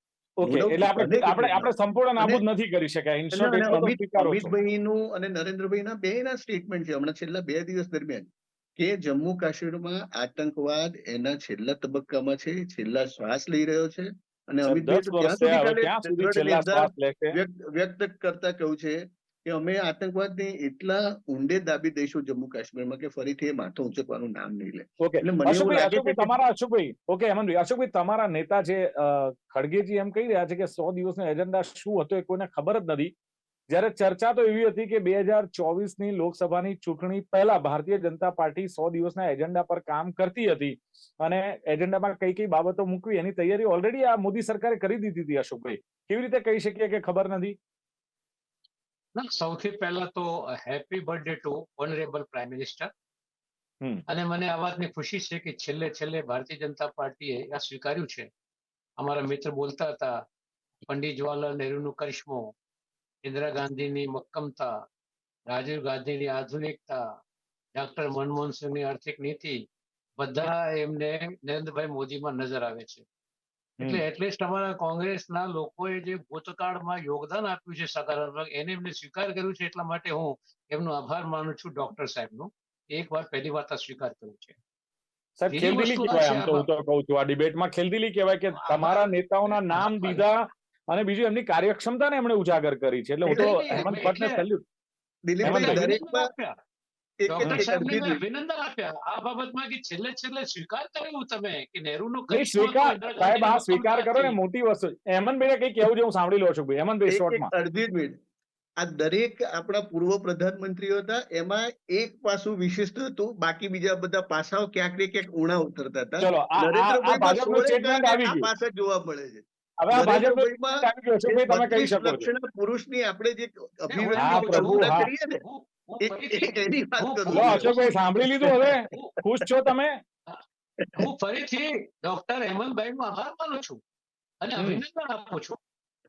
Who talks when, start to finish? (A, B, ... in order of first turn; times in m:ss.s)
0:00.4-0:04.5 A
0:00.4-0:02.4 B
0:03.3-0:26.3 B
0:14.6-0:17.4 A
0:25.0-0:33.1 A
0:33.7-0:47.6 A
0:49.2-0:52.9 C
0:54.1-0:58.3 C
0:59.0-1:00.1 C
1:00.9-1:02.5 C
1:03.2-1:04.8 C
1:05.5-1:07.1 C
1:07.8-1:09.6 C
1:10.2-1:13.0 C
1:13.8-1:24.6 C
1:25.4-1:34.6 A
1:25.5-1:26.7 C
1:28.6-1:30.2 C
1:33.3-1:34.4 C
1:35.3-1:36.3 B
1:35.4-1:35.8 A
1:35.4-1:36.6 C
1:37.2-1:38.2 B
1:37.3-1:44.4 C
1:37.4-1:37.7 A
1:42.3-1:47.5 A
1:47.1-1:48.2 B
1:48.8-2:05.4 B
1:56.2-1:58.5 A
1:59.8-2:02.3 A
2:03.9-2:07.9 C
2:04.2-2:05.1 A
2:06.0-2:07.8 B
2:07.3-2:10.0 A
2:08.4-2:08.8 B
2:08.9-2:09.2 C
2:10.8-2:11.1 B
2:11.0-2:13.8 C
2:14.4-2:15.6 C